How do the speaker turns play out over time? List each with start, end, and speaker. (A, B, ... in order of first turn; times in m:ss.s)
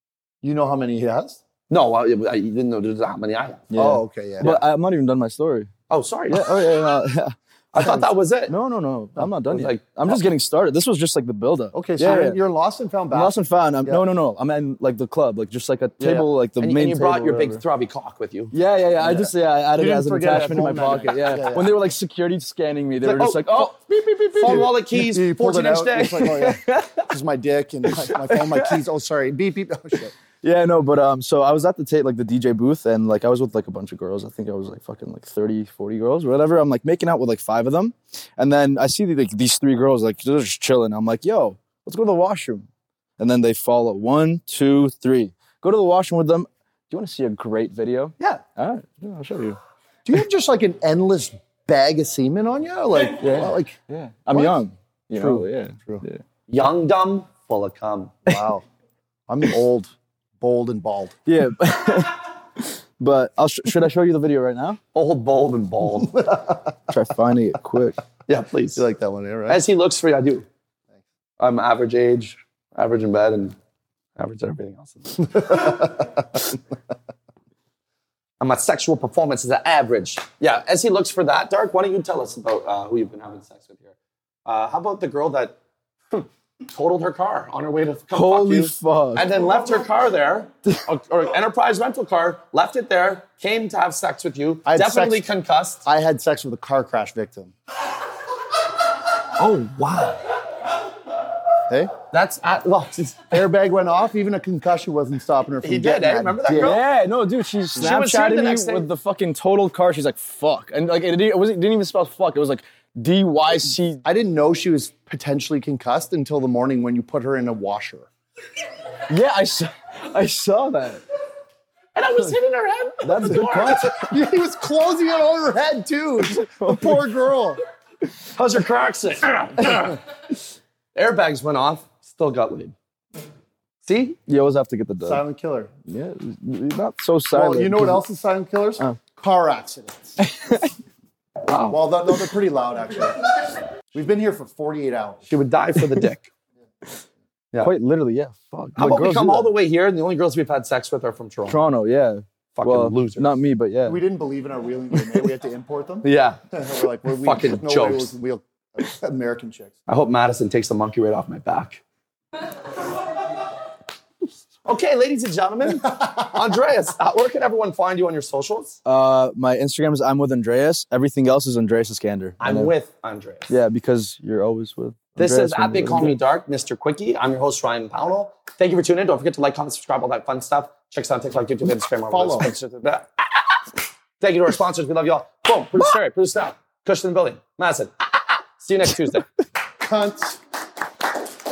0:00.4-0:01.4 A
0:01.7-0:03.7 B
0:03.7-0:05.7 C
0:03.8-0:04.6 A
0:05.9-0:06.6 B
0:06.3-0:07.9 C
0:07.7-0:08.6 B
0:07.8-0:08.1 A
0:08.5-0:12.4 C
0:09.5-0:10.2 B
0:11.7-0:14.0 A
0:13.1-0:17.6 C
0:16.0-0:16.3 A
0:16.6-0:18.5 B
0:18.5-0:24.8 C
0:19.0-0:21.8 A
0:23.1-0:23.5 B
0:24.3-0:30.2 A
0:24.4-0:26.4 B
0:26.1-0:27.1 C
0:27.9-0:28.8 C
0:30.4-0:42.7 C
0:43.2-0:49.6 C
0:50.1-0:53.8 A
0:53.2-0:56.2 C
0:54.3-0:54.6 A
0:55.2-0:56.1 A
0:56.5-0:58.2 B
0:58.3-0:58.6 A
0:59.3-1:01.2 A
1:01.3-1:04.8 C
1:04.9-1:06.2 B
1:06.0-1:07.0 A
1:06.9-1:08.0 C
1:08.3-1:08.8 B
1:08.8-1:09.6 A
1:09.5-1:10.5 B
1:11.4-1:13.6 B
1:14.2-1:15.8 B
1:15.5-1:16.0 A
1:18.4-1:24.0 B
1:24.5-1:25.6 B
1:26.1-1:35.8 B
1:28.1-1:29.3 C
1:34.7-1:35.2 A
1:35.8-1:37.5 A
1:39.4-1:40.2 B
1:41.7-1:41.9 A
1:42.1-1:43.3 B
1:43.3-1:46.8 A
1:45.6-1:46.8 B
1:46.5-1:54.0 C
1:47.8-1:48.9 B
1:54.0-1:58.1 A
1:59.1-2:01.0 C
2:02.0-2:03.9 B
2:03.0-2:04.1 C
2:03.8-2:07.6 A
2:06.4-2:07.0 C
2:08.4-2:10.0 B
2:11.0-2:12.7 B
2:13.8-2:14.2 B
2:14.3-2:15.2 C
2:15.0-2:15.7 A
2:15.9-2:18.0 C
2:17.3-2:20.2 A
2:20.2-2:20.7 C
2:21.5-2:21.8 B
2:21.7-2:23.2 A
2:23.9-2:25.3 A
2:25.3-2:26.3 B
2:27.6-2:29.5 C
2:28.8-2:31.6 B
2:31.5-2:34.0 C
2:32.6-2:33.4 B
2:33.8-2:39.7 A
2:34.9-2:35.3 C
2:36.0-2:36.4 B
2:37.2-2:38.1 B
2:39.9-2:41.8 B
2:44.6-2:48.8 B
2:48.9-2:52.7 C
2:52.4-2:53.5 B
2:53.5-2:56.2 C
2:55.2-3:03.2 B
3:02.1-3:02.5 A
3:04.2-3:09.3 B
3:09.8-3:10.4 A